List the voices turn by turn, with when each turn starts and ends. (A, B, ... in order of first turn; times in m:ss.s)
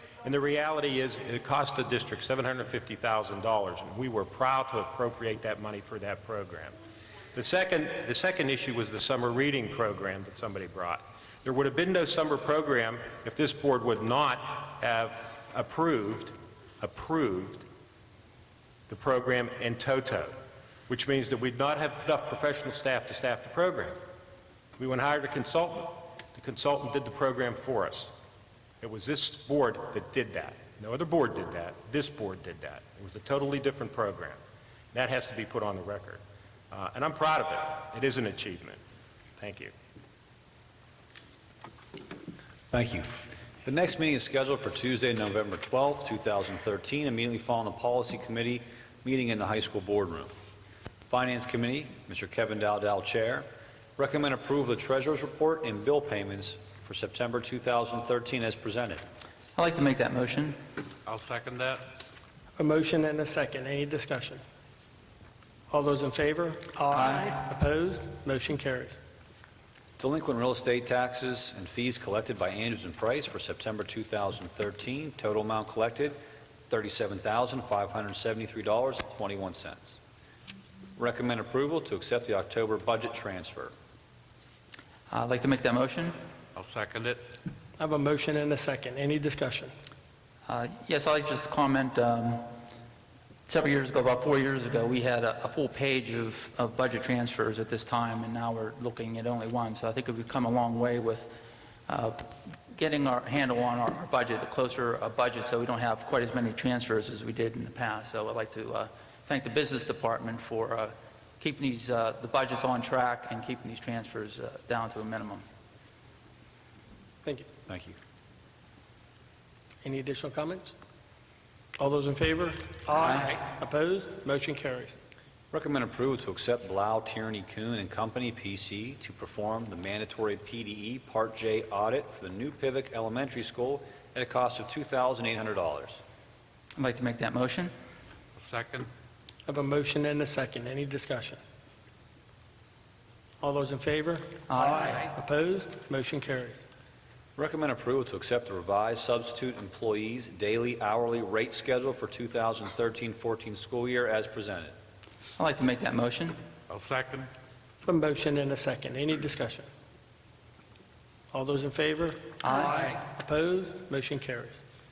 0:00.2-0:06.8 A
0:07.3-0:17.7 A
0:18.9-0:20.4 A
0:20.9-0:24.0 A
0:24.8-0:28.1 A
0:28.8-0:34.4 A
0:34.9-0:38.8 A
0:39.4-0:39.7 A
0:42.7-0:43.1 B
0:43.6-0:50.3 B
0:51.1-0:59.0 B
0:59.6-1:00.6 C
1:01.1-1:01.9 D
1:02.6-1:04.4 E
1:05.7-1:09.0 E
1:10.0-1:20.0 B
1:21.0-1:23.7 B
1:25.1-1:26.2 C
1:26.6-1:27.3 D
1:27.8-1:29.7 E
1:30.5-1:32.5 C
1:33.5-1:41.4 C
1:41.9-1:55.4 C
1:57.7-1:58.0 B
1:59.8-2:00.7 E
2:01.8-2:05.0 E
2:05.5-2:16.0 B
2:16.8-2:17.7 C
2:18.4-2:18.9 D
2:19.5-2:21.4 E
2:23.4-2:26.6 E
2:24.5-2:24.8 C
2:27.4-2:34.8 B
2:35.4-2:36.4 C
2:36.7-2:37.3 D
2:37.8-2:39.7 E
2:41.3-2:44.6 E